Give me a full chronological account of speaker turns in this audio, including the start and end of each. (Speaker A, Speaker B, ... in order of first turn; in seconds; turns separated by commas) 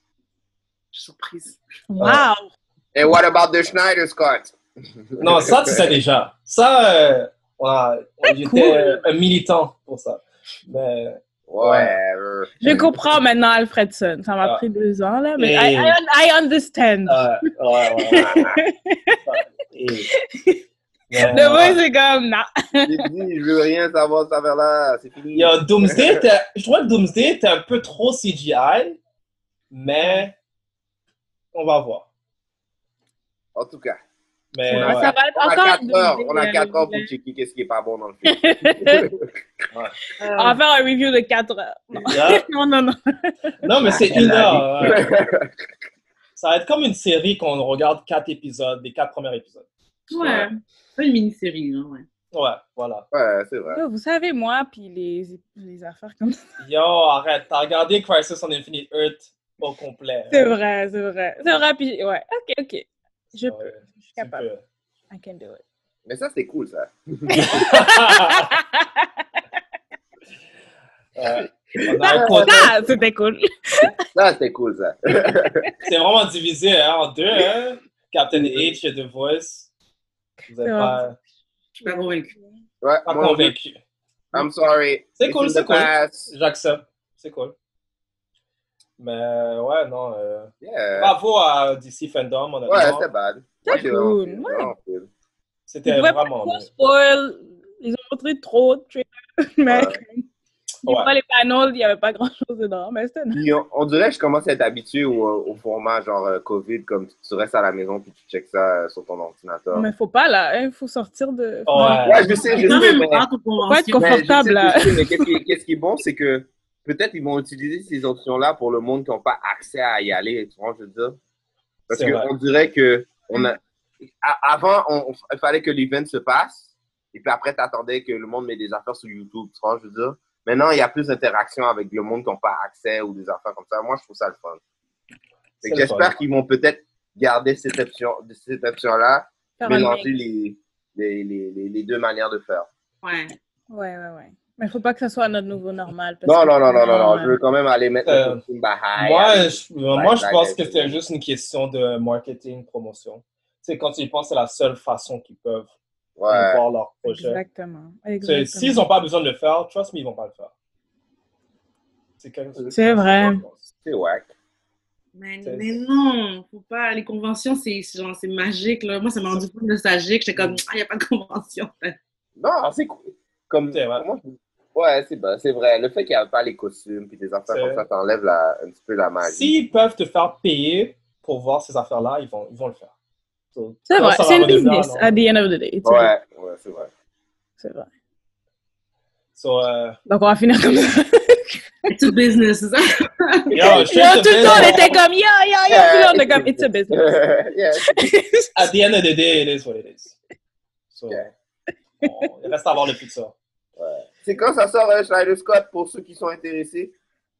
Speaker A: 0.9-1.6, Speaker B: 1.9-2.5, Speaker C: 2.0-2.3, Speaker D: 2.9-4.5, Speaker D: 5.1-6.0, Speaker C: 5.2-11.9, Speaker B: 8.3-9.0, Speaker D: 11.5-12.8, Speaker B: 12.6-17.2, Speaker C: 15.4-15.9, Speaker C: 17.1-18.5, Speaker B: 18.0-19.2, Speaker C: 19.3-20.1, Speaker B: 20.1-20.6, Speaker C: 21.1-21.8, Speaker B: 21.2-23.0, Speaker D: 22.9-26.2, Speaker C: 25.3-29.0, Speaker C: 29.7-30.3, Speaker C: 31.5-32.0, Speaker D: 33.5-34.0, Speaker C: 34.5-35.1, Speaker B: 34.7-37.1, Speaker D: 34.7-39.3, Speaker B: 38.2-39.1, Speaker A: 40.2-40.6, Speaker B: 40.4-43.9, Speaker C: 42.0-42.5, Speaker C: 43.6-45.1, Speaker D: 43.8-45.5, Speaker C: 46.4-50.5, Speaker A: 50.1-52.0, Speaker C: 52.3-53.0, Speaker D: 53.1-53.8, Speaker B: 53.7-56.5, Speaker C: 56.6-60.5, Speaker B: 60.3-64.4, Speaker C: 63.4-64.6, Speaker B: 65.1-65.6, Speaker D: 66.1-67.6, Speaker B: 67.3-69.2, Speaker C: 67.4-68.5, Speaker C: 71.2-72.7, Speaker D: 71.3-72.7, Speaker B: 72.3-73.9, Speaker D: 74.1-75.6, Speaker C: 75.8-79.7, Speaker D: 78.3-78.8, Speaker C: 80.5-81.2, Speaker B: 80.6-81.0, Speaker A: 81.8-82.3, Speaker B: 81.8-82.4, Speaker D: 82.8-83.5, Speaker C: 83.0-83.8, Speaker D: 84.3-86.3, Speaker C: 85.2-87.5, Speaker C: 89.0-93.0, Speaker D: 90.6-91.2, Speaker D: 92.7-95.1, Speaker B: 93.6-94.7, Speaker C: 95.7-96.7, Speaker B: 95.8-100.2, Speaker D: 99.7-100.0, Speaker B: 100.8-103.4, Speaker C: 100.8-101.1, Speaker D: 103.3-109.9, Speaker B: 109.7-113.0, Speaker C: 111.7-112.3, Speaker A: 111.8-114.2, Speaker D: 112.0-113.3, Speaker B: 113.6-115.2, Speaker D: 114.0-121.2, Speaker D: 121.9-134.6, Speaker C: 121.9-122.3, Speaker D: 135.6-142.7, Speaker C: 135.6-136.1, Speaker B: 139.6-140.1, Speaker A: 143.0-143.4, Speaker B: 143.7-147.4, Speaker D: 146.2-151.0, Speaker C: 148.1-148.4, Speaker C: 149.0-155.7, Speaker D: 156.2-156.6, Speaker C: 156.3-157.4, Speaker B: 157.0-158.8, Speaker C: 158.2-160.5, Speaker C: 162.2-163.7, Speaker B: 162.7-163.4, Speaker D: 163.8-164.3, Speaker A: 165.1-172.0, Speaker C: 165.4-165.8, Speaker C: 170.3-170.6, Speaker D: 172.4-179.5, Speaker C: 173.7-174.0, Speaker C: 177.5-177.8, Speaker C: 179.2-182.9, Speaker C: 183.5-185.1, Speaker B: 183.9-186.1, Speaker D: 185.8-186.9, Speaker B: 187.6-187.9, Speaker C: 189.3-190.0, Speaker B: 190.1-191.6, Speaker A: 191.9-193.8, Speaker C: 193.5-195.0, Speaker D: 193.6-194.7, Speaker B: 193.8-197.2, Speaker D: 195.7-198.1, Speaker B: 197.8-198.5, Speaker C: 198.6-200.1, Speaker C: 200.9-201.3, Speaker C: 202.0-203.3, Speaker D: 203.8-206.9